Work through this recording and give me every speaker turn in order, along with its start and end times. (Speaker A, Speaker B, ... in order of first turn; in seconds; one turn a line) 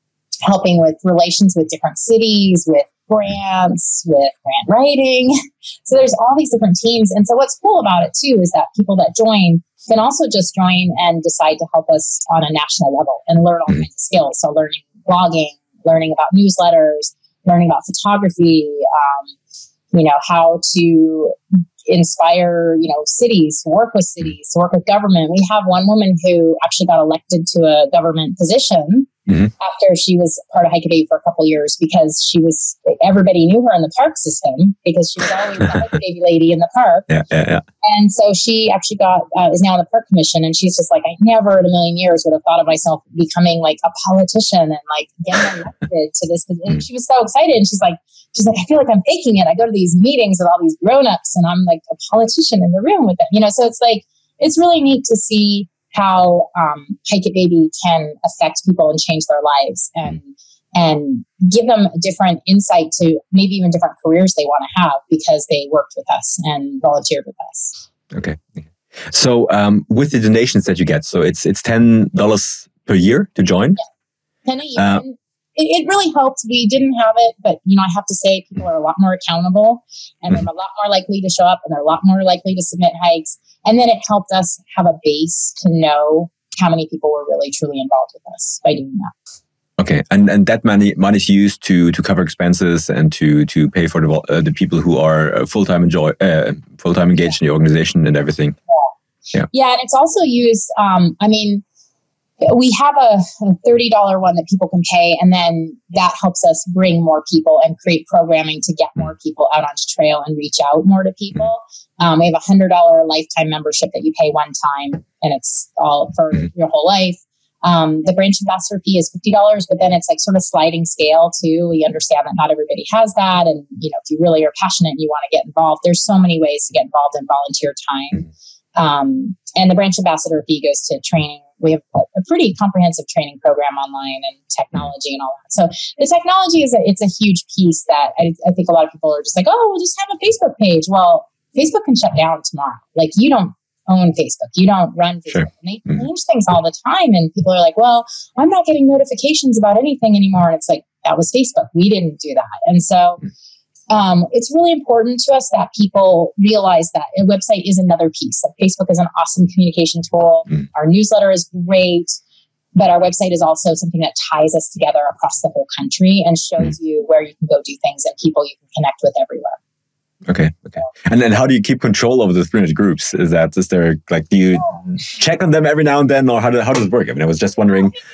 Speaker A: 0.5-19.3
Speaker A: 19.9-37.1
Speaker B: 37.1-37.6
Speaker A: 37.8-67.8
Speaker B: 68.1-73.8
Speaker A: 74.5-89.1
Speaker B: 74.8-75.0
Speaker B: 89.8-98.6
Speaker A: 99.5-101.6
Speaker A: 102.4-153.2
Speaker B: 145.3-146.0
Speaker A: 153.9-162.1
Speaker A: 162.8-169.6
Speaker B: 170.3-178.0